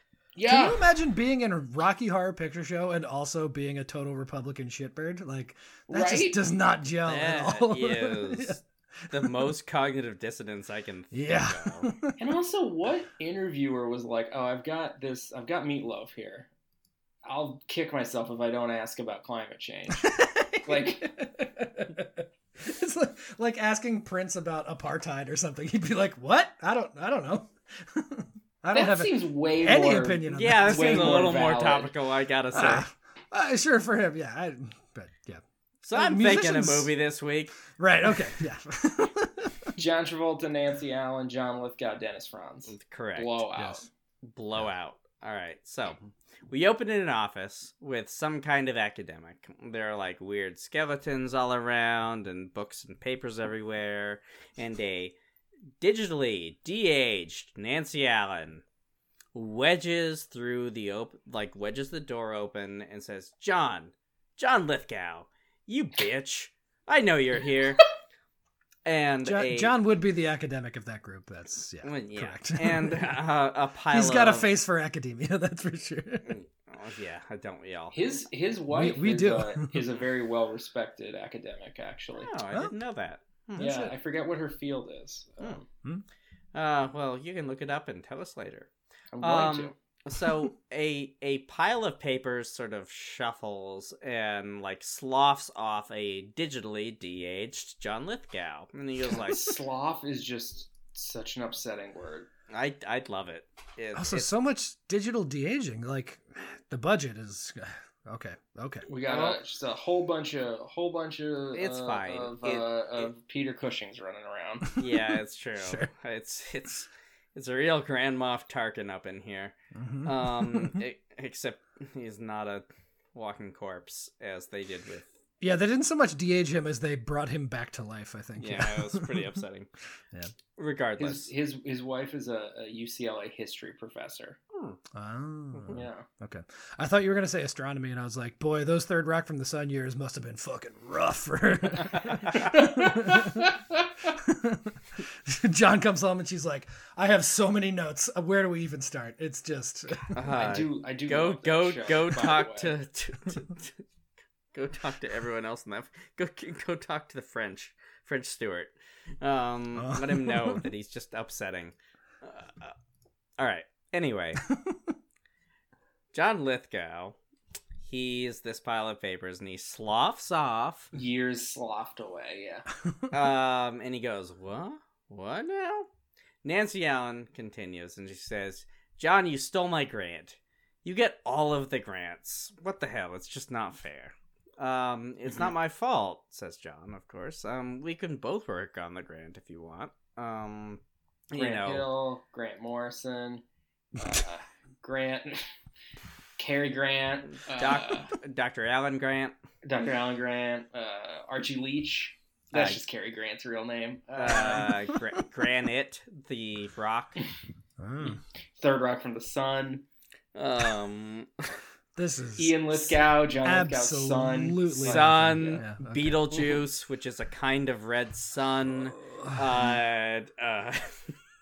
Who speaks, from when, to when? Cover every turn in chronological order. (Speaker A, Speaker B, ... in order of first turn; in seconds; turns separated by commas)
Speaker A: 0.3-0.9, Speaker B: 0.5-9.4, Speaker A: 5.9-6.4, Speaker C: 7.0-11.9, Speaker B: 11.1-12.2, Speaker A: 12.2-16.5, Speaker A: 17.2-21.1, Speaker B: 20.0-31.3, Speaker A: 28.7-31.9, Speaker C: 30.3-32.9, Speaker B: 32.5-36.9, Speaker C: 35.8-37.5, Speaker B: 37.6-39.8, Speaker A: 39.8-43.9, Speaker C: 42.7-43.5, Speaker B: 43.5-43.8, Speaker C: 44.2-46.0, Speaker C: 46.5-55.1, Speaker C: 55.8-58.6, Speaker C: 59.3-67.8, Speaker C: 68.8-69.8, Speaker B: 69.2-73.2, Speaker C: 71.8-74.5, Speaker B: 73.9-76.3, Speaker C: 76.2-78.0, Speaker A: 77.9-82.3, Speaker B: 78.7-79.8, Speaker C: 82.2-83.7, Speaker B: 83.5-83.9, Speaker A: 83.6-85.7, Speaker C: 86.5-88.7, Speaker A: 89.1-89.7, Speaker C: 89.2-99.5, Speaker A: 99.1-102.3, Speaker C: 102.5-104.3, Speaker B: 103.9-108.8, Speaker A: 108.9-114.7, Speaker C: 109.1-109.4, Speaker C: 111.5-113.1, Speaker C: 114.8-125.1, Speaker B: 115.6-115.9, Speaker B: 119.7-120.8, Speaker B: 125.4-129.4, Speaker C: 128.4-129.7, Speaker C: 130.6-131.3, Speaker A: 131.0-134.4, Speaker C: 134.5-134.8, Speaker B: 134.9-143.5, Speaker C: 135.5-135.8, Speaker A: 135.7-136.1, Speaker C: 142.0-142.5, Speaker A: 142.5-143.4, Speaker B: 144.1-150.2, Speaker C: 150.1-153.8, Speaker A: 150.3-152.8, Speaker C: 154.5-162.7, Speaker B: 159.7-160.6, Speaker C: 163.4-164.4, Speaker B: 164.5-164.8, Speaker C: 166.1-167.2, Speaker C: 167.8-170.9, Speaker A: 170.9-172.7, Speaker C: 173.1-175.9, Speaker C: 176.4-191.9, Speaker A: 191.3-193.4, Speaker A: 193.9-195.4, Speaker A: 196.4-198.1, Speaker C: 197.3-199.3, Speaker A: 199.6-204.8, Speaker C: 202.5-202.8, Speaker C: 204.2-207.2, Speaker B: 207.8-208.2, Speaker A: 208.6-209.8, Speaker C: 210.3-211.3, Speaker B: 211.9-216.6, Speaker A: 212.4-215.6, Speaker C: 214.8-221.1, Speaker B: 218.9-219.7